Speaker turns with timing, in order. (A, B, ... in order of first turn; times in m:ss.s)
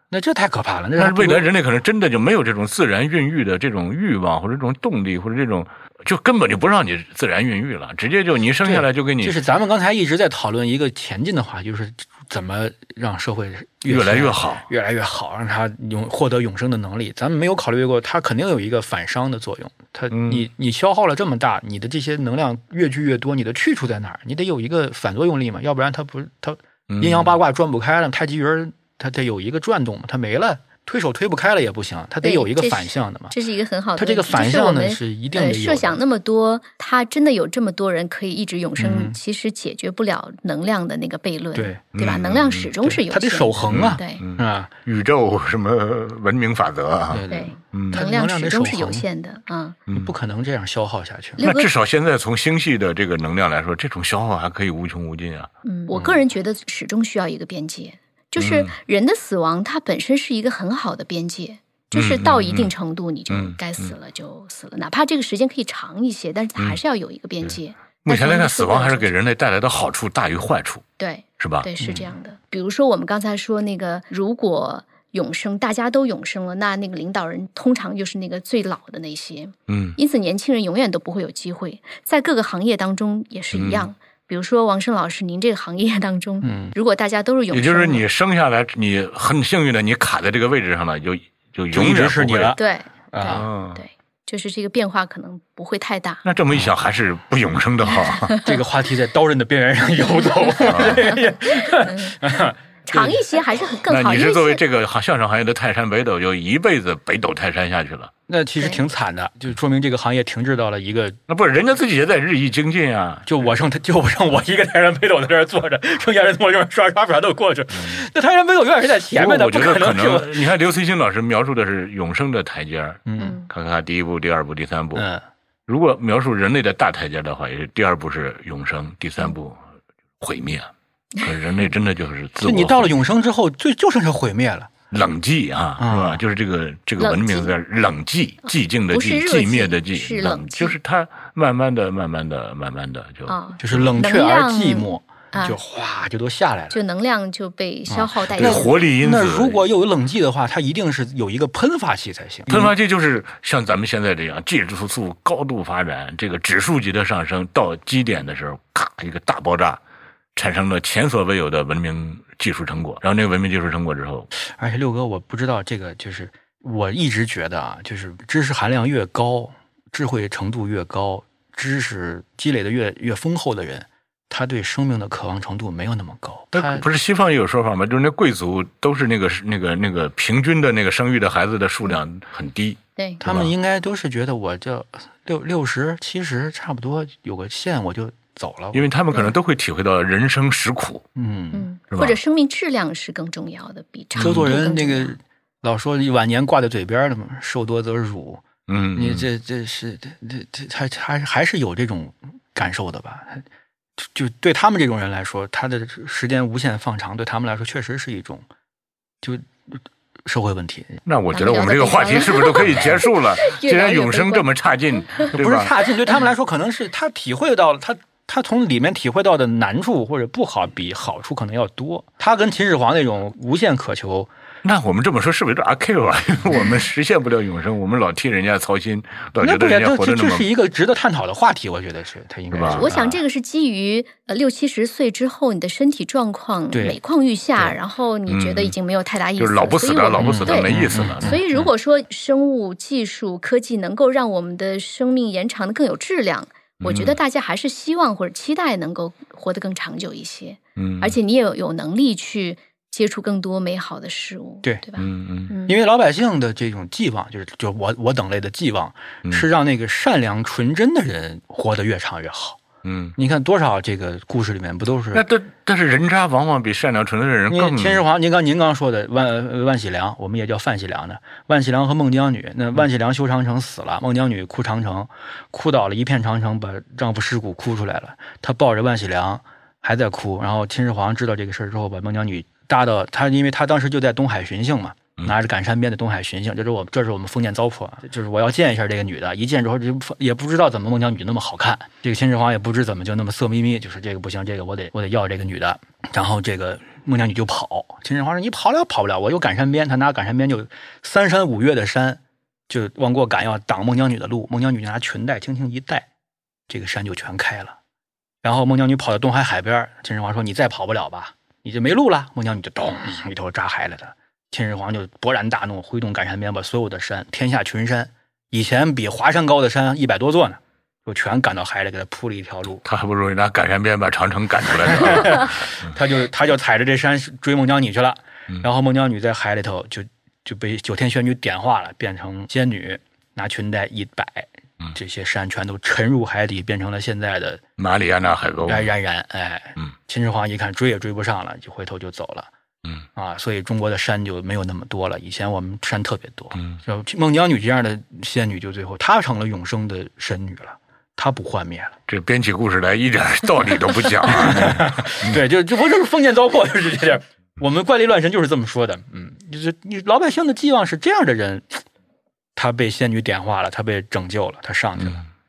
0:00.1-0:01.5 A
0:01.0-0:09.4 B
0:08.6-0:33.3 A
0:13.9-0:14.6 B
0:20.1-0:20.4 B
0:26.9-0:27.3 B
0:32.2-0:44.2 C
0:34.0-0:36.0 A
0:38.8-0:39.2 A
0:41.5-0:41.8 A
0:41.9-0:42.7 B
0:42.8-0:44.7 A
0:43.7-0:48.0 B
0:47.1-0:49.1 A
0:47.3-0:49.8 C
0:49.9-0:50.1 B
0:49.9-0:51.4 A
0:51.4-0:51.7 C
0:51.4-0:56.2 B
0:55.6-1:09.1 C
0:58.4-0:58.8 B
1:01.9-1:02.7 B
1:03.3-1:03.9 B
1:07.4-1:10.8 B
1:11.0-1:28.0 C
1:11.4-1:11.7 B
1:19.7-1:20.0 B
1:23.5-1:23.9 B
1:26.4-1:26.7 A
1:27.5-1:32.6 B
1:31.7-1:32.6 A
1:32.6-1:36.2 C
1:33.1-1:33.4 A
1:33.3-1:33.8 B
1:36.2-1:38.4 B
1:38.2-1:38.5 C
1:38.4-1:43.4 A
1:40.2-1:42.2 C
1:40.6-1:41.1 B
1:42.9-1:44.6 C
1:43.9-1:48.1 B
1:48.3-1:51.2 A
1:51.3-1:53.3 B
1:53.2-2:00.5 A
1:59.1-2:05.1 B
2:03.1-2:03.4 A
2:03.2-2:03.5 C
2:04.9-2:05.2 A
2:05.7-2:09.6 B
2:10.2-2:12.9 B
2:12.4-2:14.7 A
2:14.9-2:23.9 B
2:15.8-2:16.2 A
2:17.0-2:17.5 C
2:18.4-2:20.8 C
2:23.3-2:25.6 C
2:23.6-2:26.8 A
2:26.7-2:28.8 C
2:27.9-2:32.7 A
2:28.3-2:29.6 B
2:32.5-2:39.8 B
2:40.4-2:44.3 B
2:44.4-2:56.9 A
2:56.5-3:03.5 B
3:03.0-3:03.2 C
3:03.2-3:08.9 A
3:08.7-3:11.0 B
3:11.2-3:11.7 A
3:11.5-3:15.2 C
3:11.9-3:12.2 B
3:14.2-3:14.5 B
3:14.2-3:18.4 A
3:18.7-3:19.2 B
3:19.0-3:23.4 A
3:24.0-3:28.5 A
3:29.2-3:31.0 A
3:31.1-3:35.7 B
3:31.3-3:34.5 C
3:35.3-3:44.3 A
3:44.6-3:50.4 B
3:49.4-3:53.2 A
3:52.5-3:52.9 B
3:52.7-4:15.8 C
3:56.7-3:57.0 A
3:58.3-3:58.7 B
3:59.4-4:01.4 B
4:00.2-4:01.7 A
4:06.8-4:07.2 B
4:10.8-4:11.2 B
4:15.0-4:15.5 B
4:15.7-4:22.6 A
4:22.8-4:23.2 B
4:23.2-4:25.2 A
4:25.1-4:28.0 B
4:27.5-5:06.1 A
5:06.7-5:07.8 A
5:08.4-5:22.8 A
5:22.8-5:25.7 B
5:24.8-5:37.6 A
5:37.8-5:38.9 B
5:38.6-5:42.5 A
5:43.2-5:51.9 A
5:52.1-5:55.4 B
5:54.3-6:01.8 A
6:02.6-6:05.2 A